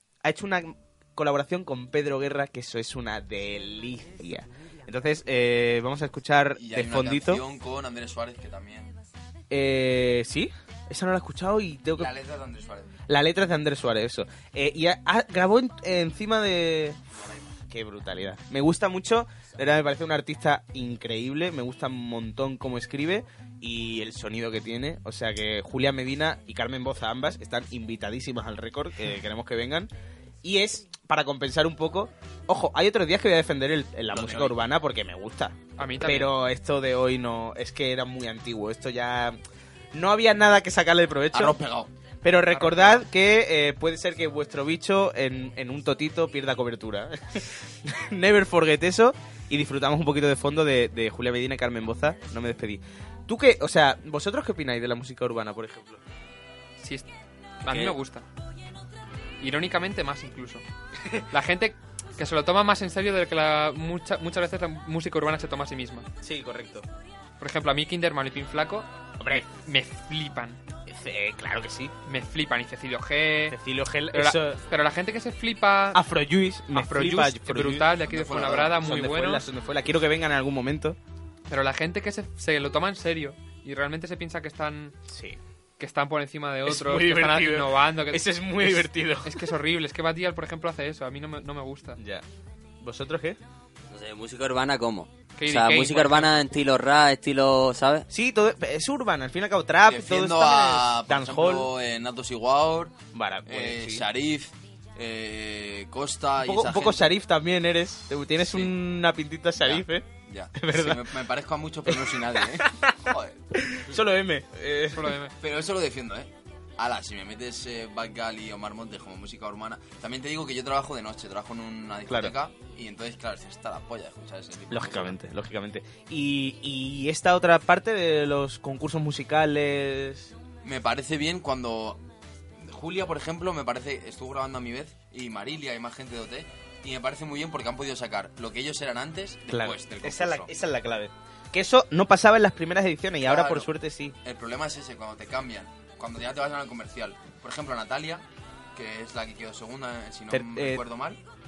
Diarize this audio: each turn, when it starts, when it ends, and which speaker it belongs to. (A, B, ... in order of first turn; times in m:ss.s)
0:00.2-0:07.4 A
0:06.6-0:09.0 B
0:09.5-0:12.1 A
0:12.0-0:12.9 B
0:13.1-0:17.0 A
0:17.7-0:29.9 A
0:30.4-0:39.4 A
0:34.1-0:34.6 B
0:35.8-0:36.3 C
0:39.9-0:41.6 A
0:41.3-0:41.9 B
0:42.2-0:56.0 A
0:42.5-0:43.0 C
0:56.8-0:57.1 C
0:57.6-0:58.2 C
0:57.7-0:58.0 D
0:59.4-1:00.6 C
1:01.3-1:06.1 C
1:06.2-1:06.9 A
1:07.4-1:10.6 C
1:09.2-1:09.4 A
1:10.9-1:11.9 A
1:12.1-1:13.6 C
1:13.5-1:14.6 A
1:14.1-1:16.0 C
1:15.9-1:17.9 A
1:16.7-1:19.5 C
1:18.1-1:18.8 B
1:18.6-1:21.0 A
1:21.5-1:25.0 C
1:25.1-1:25.4 A
1:25.8-1:32.0 C
1:26.7-1:29.4 A
1:32.0-1:32.2 A
1:32.8-1:33.4 A
1:33.9-1:38.1 D
1:35.4-1:36.3 C
1:38.1-1:41.7 A
1:39.9-1:47.1 B
1:43.1-1:44.0 A
1:46.4-1:51.0 A
1:48.4-1:48.7 B
1:49.6-1:53.4 B
1:51.9-1:53.0 A
1:53.6-1:55.2 A
1:55.0-1:55.4 C
1:55.4-2:05.2 B
2:02.1-2:02.3 A
2:04.7-2:10.3 A
2:10.6-2:12.0 B
2:12.6-2:20.5 B
2:19.5-2:24.2 A
2:23.2-2:23.7 B
2:24.2-2:31.2 B
2:30.3-2:30.8 A